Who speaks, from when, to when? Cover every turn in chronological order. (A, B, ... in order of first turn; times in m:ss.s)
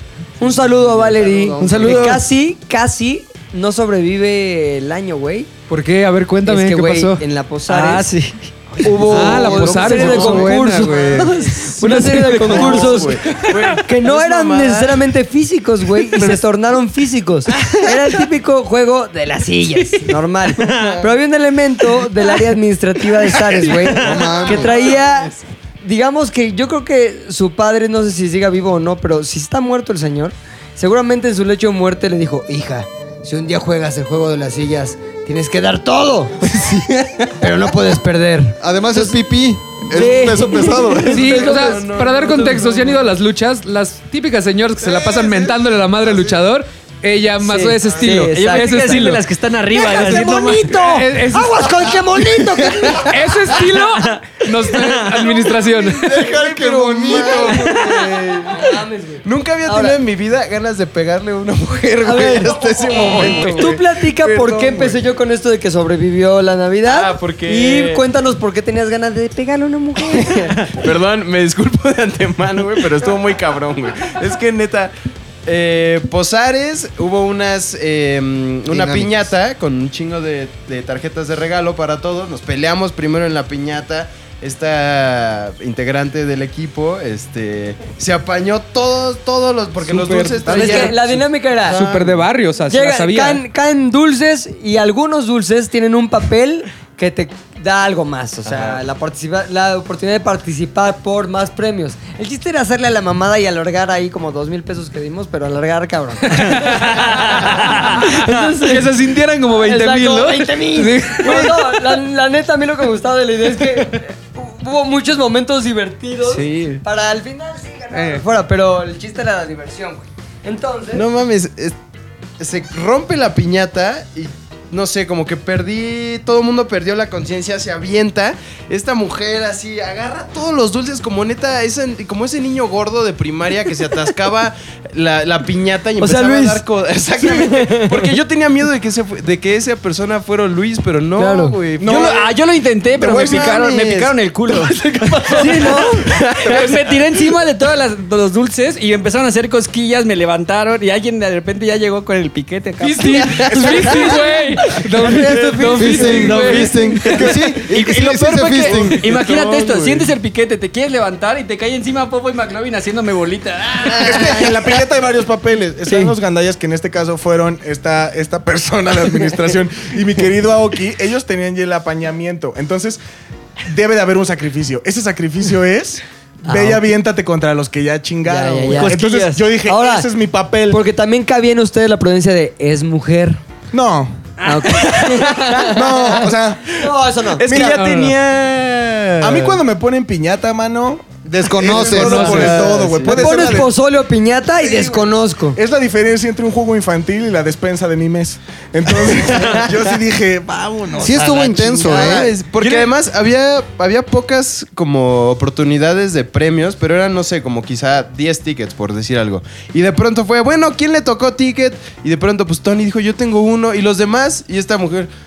0:00.4-0:05.5 A
0:01.0-0:02.2 B
0:01.6-0:02.2 C
0:05.7-0:07.2 D
0:06.4-0:08.1 A
0:07.7-0:09.7 C
0:08.8-0:13.2 A
0:08.8-0:11.5 B
0:09.0-0:13.4 D
0:12.4-0:15.1 B
0:13.2-0:13.6 C
0:13.7-0:36.5 A
0:16.1-0:16.4 B
0:17.5-0:17.9 C
0:20.6-0:21.0 C
0:20.7-0:21.0 B
0:23.4-0:24.6 C
0:24.0-0:24.7 E
0:24.5-0:25.0 B
0:36.5-0:37.3 B
0:37.4-0:39.2 A
0:38.6-0:41.3 E
0:39.9-0:41.8 A
0:40.6-0:43.0 B
0:41.1-0:49.2 D
0:44.9-0:45.3 B
0:47.4-0:48.7 A
0:48.3-0:50.8 C
0:49.7-0:53.2 A
0:49.9-0:52.1 D
0:52.9-0:56.2 D
0:53.8-0:55.3 C
0:55.9-0:57.9 E
0:56.0-1:05.0 B
0:57.1-1:00.0 A
1:02.0-1:10.7 A
1:06.8-1:08.0 B
1:10.1-1:14.9 B
1:15.4-1:32.2 B
1:18.7-1:19.3 E
1:29.9-1:30.9 D
1:30.4-1:31.9 A
1:31.6-1:33.4 D
1:32.7-1:48.9 A
1:38.4-1:38.8 B
1:46.3-1:52.0 D
1:47.1-1:47.6 C
1:49.5-2:01.0 A
1:56.2-1:56.8 C
1:57.9-1:58.2 D
2:00.9-2:01.8 B
2:02.4-2:22.2 B
2:16.0-2:16.6 A
2:17.2-2:18.1 A
2:21.2-2:21.6 A
2:21.8-2:22.2 F
2:21.8-2:34.2 C
2:22.9-2:27.0 B
2:23.1-2:23.4 F
2:25.3-2:26.0 A
2:32.8-2:36.9 D
2:33.4-2:34.2 F
2:33.6-2:33.9 B
2:35.0-2:35.8 A
2:35.1-2:37.4 B
2:35.7-2:39.0 E
2:37.4-2:37.7 F
2:37.6-2:44.5 C
2:38.6-2:40.1 B
2:38.6-2:39.1 F
2:44.0-2:53.0 F
2:45.9-2:46.1 A
2:53.7-3:00.8 F
2:56.4-2:56.8 A
2:58.2-2:59.0 A
2:58.7-2:59.4 C
2:59.6-3:00.1 A
3:00.7-3:03.4 A
3:03.7-3:04.2 F
3:04.4-3:06.1 A
3:04.4-3:05.6 C
3:05.6-3:06.7 F
3:06.7-3:07.4 A
3:07.4-3:09.6 B
3:07.4-3:08.1 F
3:07.6-3:08.1 D
3:09.2-3:13.7 F
3:11.2-3:13.0 E
3:11.6-3:13.5 B
3:11.9-3:12.6 D
3:13.0-3:15.6 A
3:14.7-3:15.0 F
3:15.5-3:21.3 F
3:19.3-3:19.7 B
3:21.0-3:22.3 E
3:21.0-3:22.2 A
3:21.1-3:35.1 B
3:22.6-3:22.9 F